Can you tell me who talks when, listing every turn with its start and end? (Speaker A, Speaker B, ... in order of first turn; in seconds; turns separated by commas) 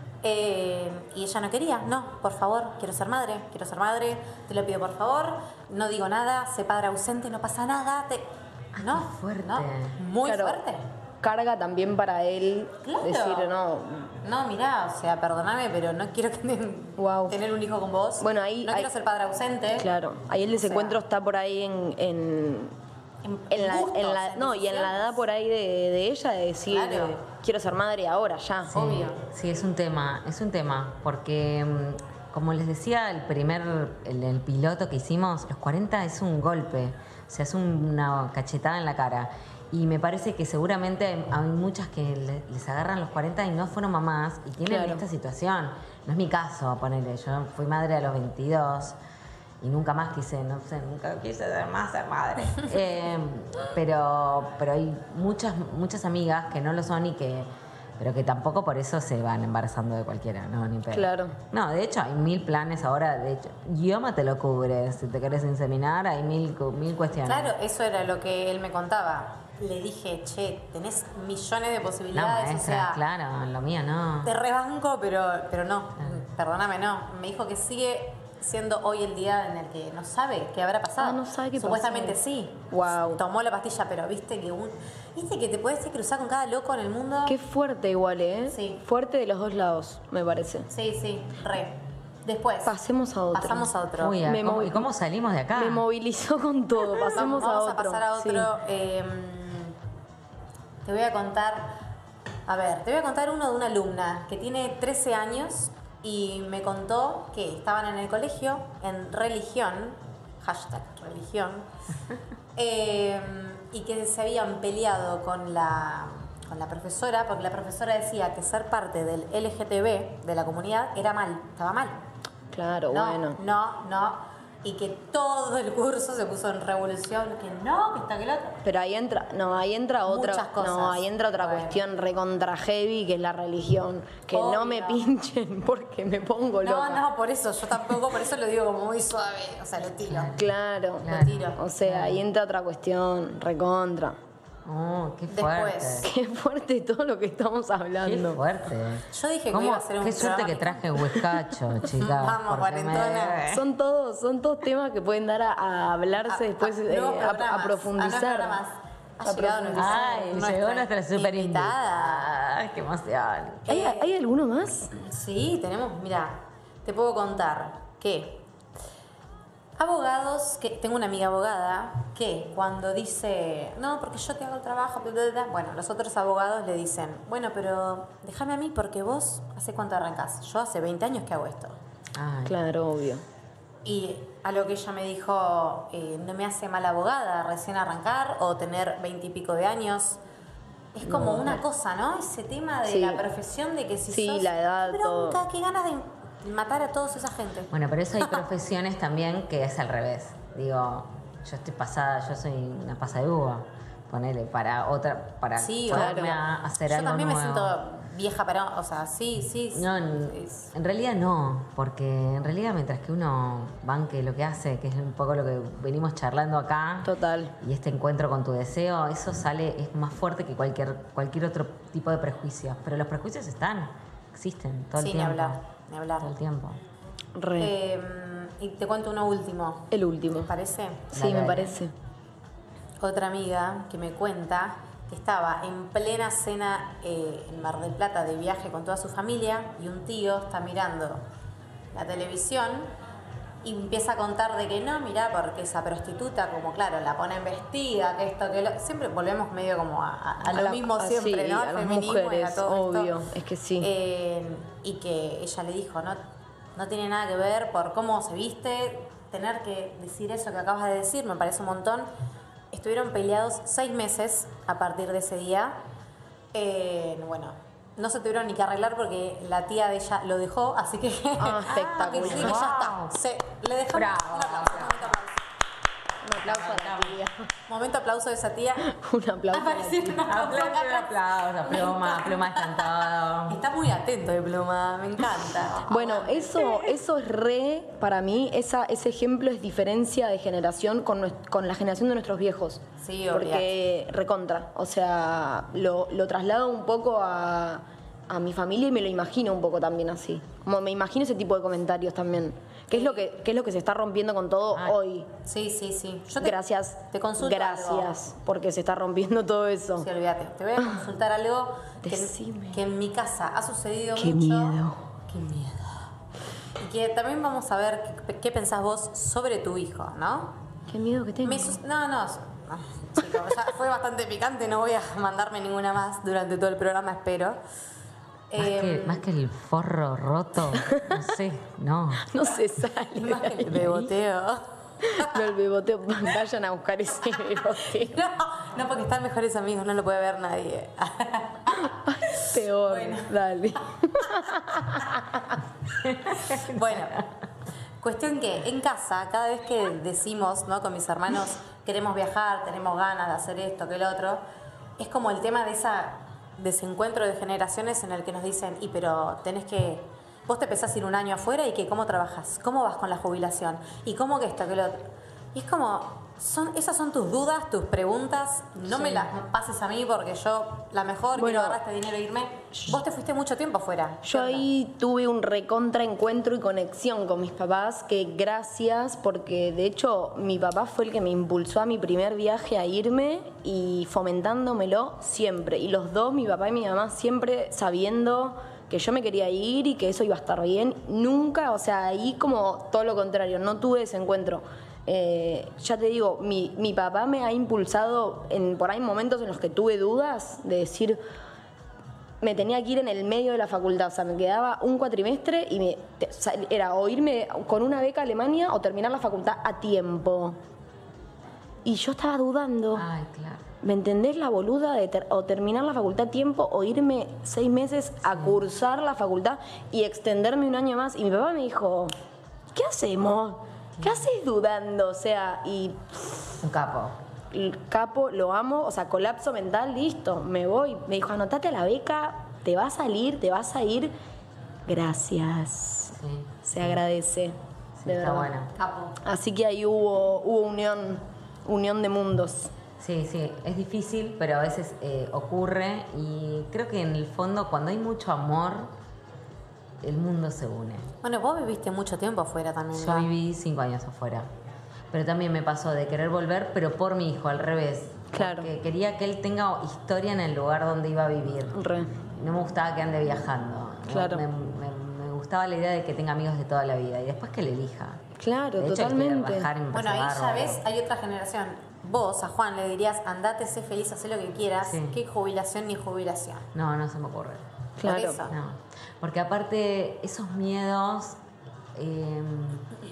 Speaker A: 0.2-10.8, Speaker B: 8.8-10.0, Speaker C: 10.2-10.6, Speaker C: 11.2-14.1, Speaker A: 12.8-13.5, Speaker A: 14.2-19.9, Speaker C: 17.0-17.4, Speaker C: 18.2-18.9, Speaker C: 19.8-22.7, Speaker A: 20.6-21.0, Speaker A: 23.2-25.1, Speaker C: 23.5-28.8, Speaker A: 26.7-27.2, Speaker B: 28.7-49.0, Speaker A: 28.7-29.2, Speaker C: 44.7-45.0, Speaker B: 49.6-67.5, Speaker C: 60.9-61.4, Speaker A: 67.2-73.0, Speaker B: 72.1-74.3, Speaker A: 74.2-87.4, Speaker C: 81.0-82.2, Speaker C: 82.7-83.2, Speaker C: 87.3-90.7, Speaker A: 88.5-88.8, Speaker A: 90.7-92.8, Speaker C: 92.7-94.9, Speaker A: 93.3-94.2, Speaker B: 94.0-95.8, Speaker C: 95.5-98.5, Speaker A: 97.1-99.8, Speaker A: 100.8-101.8, Speaker A: 102.5-111.7, Speaker A: 112.6-122.0, Speaker C: 122.5-123.4, Speaker A: 122.9-128.6, Speaker C: 128.6-137.0, Speaker A: 130.1-131.8, Speaker A: 134.3-135.1, Speaker A: 136.6-140.3, Speaker B: 140.1-140.5, Speaker C: 140.4-144.2, Speaker B: 141.0-142.2, Speaker A: 141.1-141.6, Speaker B: 144.7-146.1, Speaker A: 145.3-146.1, Speaker C: 146.0-148.4, Speaker B: 148.0-153.7, Speaker A: 149.1-150.8, Speaker A: 151.9-153.4, Speaker C: 153.5-158.6, Speaker A: 156.3-162.3, Speaker C: 159.2-160.4, Speaker B: 159.8-163.7, Speaker A: 163.7-164.1, Speaker C: 163.7-164.9, Speaker A: 164.9-168.4, Speaker A: 169.8-181.8, Speaker B: 182.2-182.6, Speaker C: 182.5-183.2, Speaker A: 183.8-190.2, Speaker A: 190.9-197.7, Speaker C: 191.1-191.6, Speaker C: 192.9-193.2, Speaker C: 194.1-195.4, Speaker B: 197.7-207.8, Speaker A: 205.6-210.7, Speaker C: 205.9-206.3, Speaker B: 209.7-225.6, Speaker C: 217.1-217.5, Speaker A: 225.0-226.3, Speaker B: 226.2-226.8, Speaker C: 227.4-227.7, Speaker A: 227.6-229.9, Speaker C: 229.9-230.5, Speaker A: 230.4-231.1, Speaker C: 231.1-231.9, Speaker B: 231.1-231.8, Speaker A: 233.0-241.2, Speaker A: 241.9-242.9, Speaker A: 243.6-253.2, Speaker C: 250.5-253.9, Speaker A: 253.8-256.2, Speaker A: 256.8-262.1, Speaker A: 262.7-265.8, Speaker A: 266.5-275.4, Speaker C: 271.4-272.7, Speaker B: 271.7-273.1, Speaker B: 273.9-275.2, Speaker C: 276.2-277.4, Speaker B: 276.4-277.2, Speaker A: 276.4-278.9, Speaker C: 278.8-280.2, Speaker A: 279.5-287.0, Speaker B: 280.2-283.6, Speaker C: 285.9-305.3, Speaker A: 293.0-293.7, Speaker A: 302.9-303.2, Speaker A: 305.4-306.6, Speaker C: 306.4-310.1, Speaker A: 307.1-308.1, Speaker A: 310.0-316.0, Speaker C: 312.0-312.8, Speaker C: 314.2-315.0, Speaker A: 316.8-320.6, Speaker C: 320.9-321.8, Speaker A: 321.4-327.6, Speaker A: 328.5-329.2, Speaker B: 328.6-332.4, Speaker C: 330.8-331.1, Speaker C: 332.2-334.1, Speaker A: 333.1-335.5, Speaker C: 335.0-338.2, Speaker A: 337.6-343.3, Speaker C: 341.7-345.6, Speaker A: 344.1-345.0, Speaker A: 346.0-347.3, Speaker B: 346.1-347.0, Speaker A: 348.0-354.4, Speaker A: 355.0-374.7, Speaker C: 368.9-369.3, Speaker C: 371.4-371.8, Speaker C: 374.2-401.2, Speaker C: 402.4-410.6, Speaker C: 411.9-413.1, Speaker B: 412.9-413.7, Speaker C: 413.8-422.1, Speaker B: 418.3-418.6, Speaker C: 422.7-426.6, Speaker B: 426.6-427.2, Speaker C: 427.5-434.1, Speaker C: 434.9-438.5, Speaker B: 436.2-437.0, Speaker B: 438.0-438.7, Speaker A: 438.8-439.2, Speaker C: 439.2-442.7, Speaker B: 443.0-448.9, Speaker B: 450.0-451.1, Speaker A: 451.2-453.3, Speaker B: 452.9-454.5, Speaker B: 455.1-461.8, Speaker C: 458.3-458.7, Speaker C: 461.7-462.1, Speaker B: 462.4-468.2, Speaker C: 464.1-464.4, Speaker C: 468.4-469.7, Speaker B: 468.8-470.8, Speaker A: 469.9-476.7, Speaker B: 474.8-475.2, Speaker B: 476.7-477.6, Speaker C: 478.0-478.4, Speaker A: 478.0-478.6, Speaker B: 478.5-481.4, Speaker B: 481.9-482.9